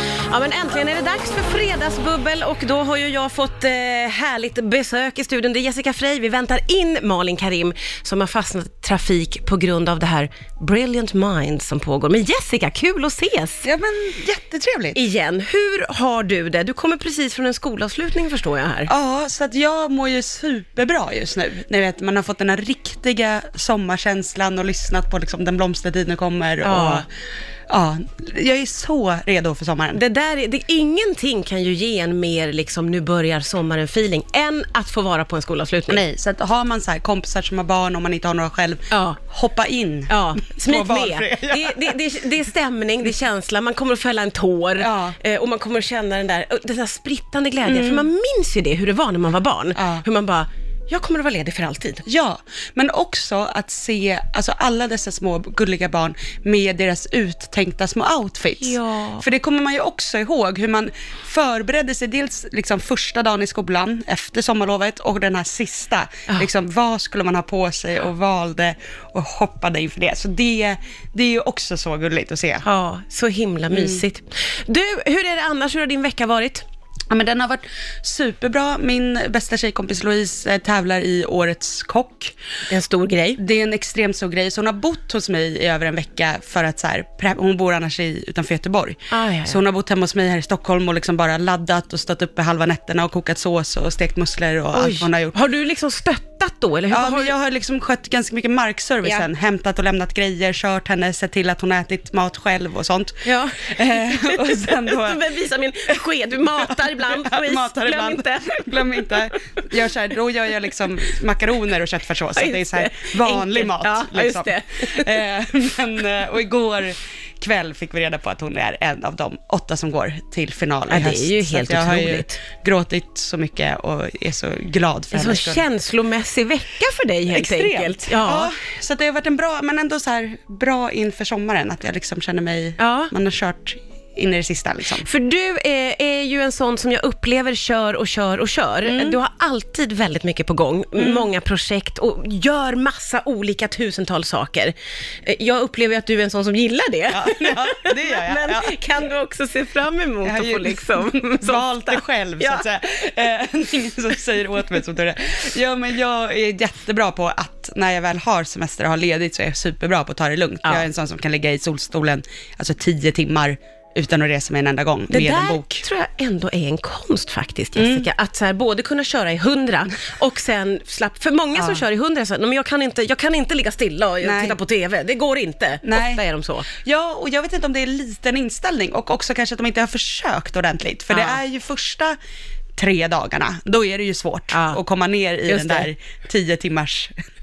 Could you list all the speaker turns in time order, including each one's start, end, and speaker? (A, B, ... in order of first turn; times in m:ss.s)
0:00.3-0:13.7 A
0:13.6-0:15.0 B
0:14.9-0:18.9 A
0:18.9-0:27.1 B
0:26.6-0:27.1 A
0:27.7-0:30.0 B
0:29.9-0:36.0 A
0:35.9-0:42.0 B
0:38.9-0:39.2 A
0:40.1-0:52.0 A
0:44.8-0:45.2 B
0:47.6-0:48.1 B
0:49.7-0:50.0 B
0:52.0-1:12.6 B
0:58.6-0:59.2 A
1:12.6-1:16.6 A
1:13.7-1:14.0 B
1:17.1-1:22.3 B
1:22.7-1:23.4 A
1:23.4-1:35.4 B
1:29.1-1:29.6 A
1:34.7-1:37.3 A
1:36.9-1:45.2 B
1:43.2-1:49.3 A
1:46.7-2:05.6 B
1:52.3-1:55.2 A
2:00.9-2:02.4 A
2:05.1-2:08.5 A
2:07.3-2:15.1 B
2:12.8-2:13.1 A
2:15.0-2:32.7 A
2:18.8-2:19.2 B
2:21.0-2:21.2 B
2:27.1-2:28.8 B
2:30.2-2:45.8 B
2:45.1-2:56.7 A
2:47.8-2:48.1 B
2:51.6-2:51.8 B
2:54.2-2:54.6 B
2:55.8-3:02.2 B
3:01.1-3:01.4 A
3:02.8-3:07.2 B
3:04.5-3:04.8 A
3:05.5-3:05.9 A